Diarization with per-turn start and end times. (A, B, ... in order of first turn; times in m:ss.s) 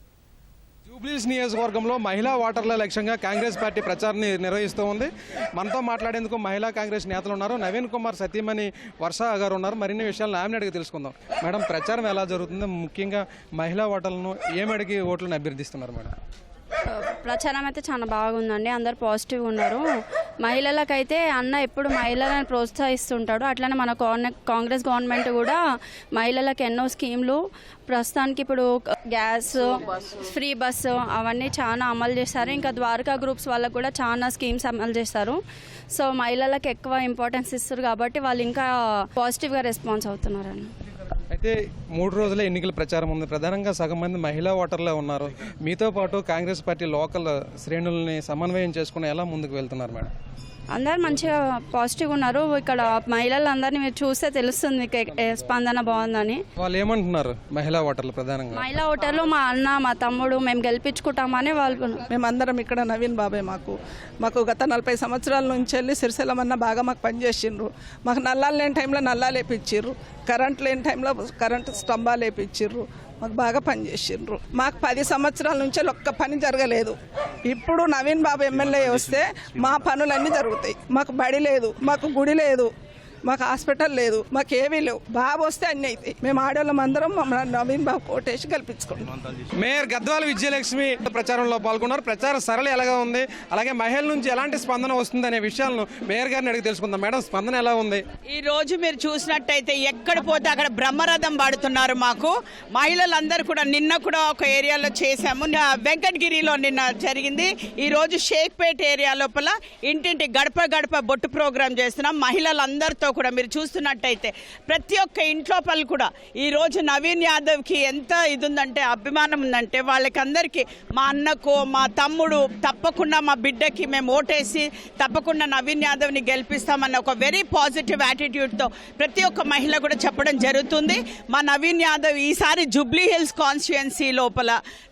0:00.8-0:16.1 A
0:16.9-0:19.8 B
0:20.4-0:25.6 B
0:26.1-0:35.4 B
0:35.9-0:40.7 B
0:41.3-0:50.1 A
0:50.7-0:56.4 B
0:56.6-0:58.6 A
0:58.5-1:02.0 B
1:02.1-1:22.7 C
1:23.2-1:29.1 C
1:29.6-1:38.0 A
1:38.3-2:14.6 D